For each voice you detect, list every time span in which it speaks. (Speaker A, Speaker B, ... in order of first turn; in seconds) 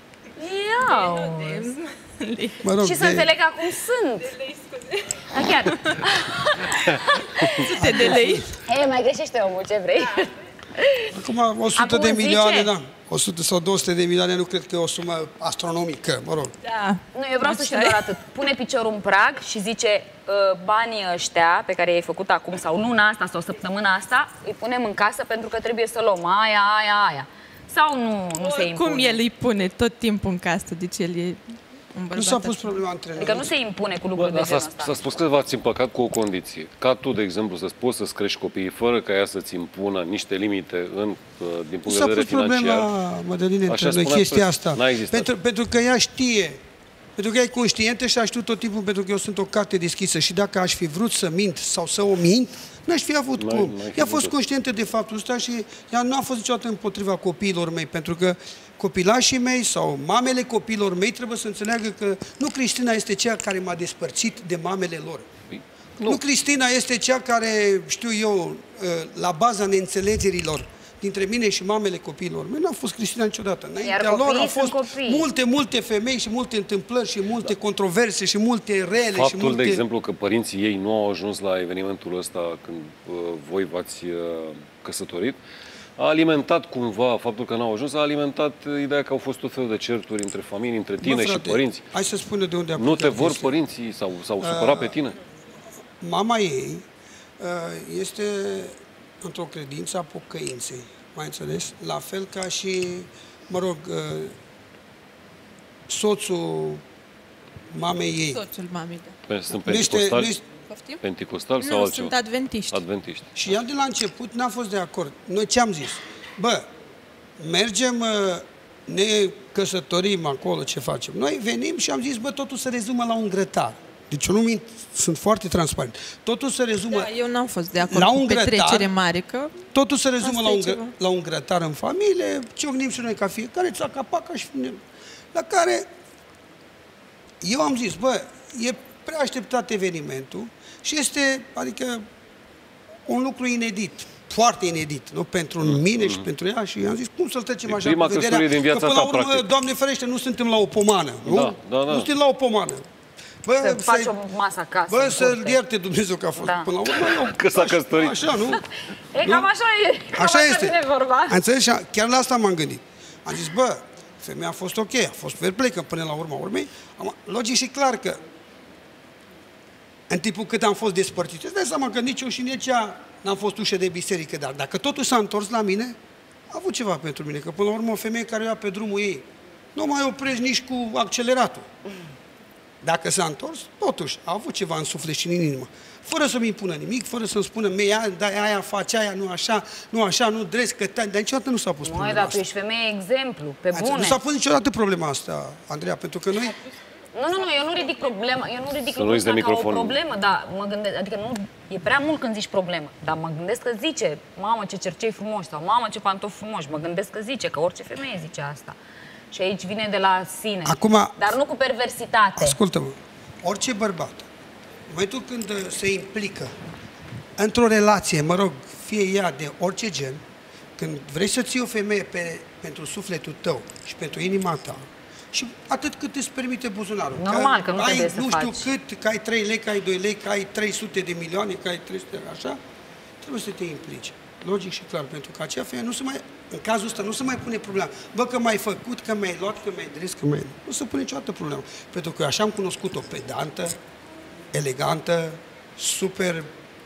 Speaker A: 0.4-1.7, 2.8-4.3, 5.3-7.6, 8.6-11.1, 11.8-12.7, 17.1-29.2, 33.1-34.9, 73.8-75.3, 153.6-155.6, 156.4-156.7, 159.1-161.4, 191.8-194.2, 197.1-208.8, 209.3-212.6, 227.2-228.7
Speaker B: 0.8-2.6, 4.2-6.0, 7.7-8.4, 16.6-18.0, 28.4-31.4, 31.9-32.8, 108.3-109.1, 110.7-111.0, 111.6-112.8, 126.9-129.6, 130.2-130.9
Speaker C: 2.6-3.3, 7.7-8.4, 11.1-16.5, 32.1-33.5, 41.9-46.6, 47.2-65.3, 66.0-79.8, 91.0-93.5, 94.4-94.9, 96.0-96.8, 97.4-104.3, 105.9-106.8, 107.7-108.4, 109.6-110.4, 113.3-116.7, 117.4-127.1, 127.8-128.9, 129.7-134.8, 135.3-135.8, 137.4-142.1, 143.1-152.8, 153.4-154.1, 154.9-158.6, 159.2-159.5, 160.1-168.2, 170.1-175.9, 176.5-181.7, 182.8-192.4, 193.7-196.6, 210.6-211.2, 212.4-214.2, 214.9-216.5, 217.4-220.2, 220.8-232.6, 233.2-243.8, 244.5-246.5
Speaker D: 34.1-42.9, 43.7-45.3, 53.4-54.3, 65.5-66.2, 79.1-85.4, 86.0-91.8, 92.8-95.2, 109.3-110.3, 111.0-112.2, 112.7-113.3, 145.6-146.2, 147.6-149.5, 151.2-152.1, 156.9-158.5, 198.9-200.0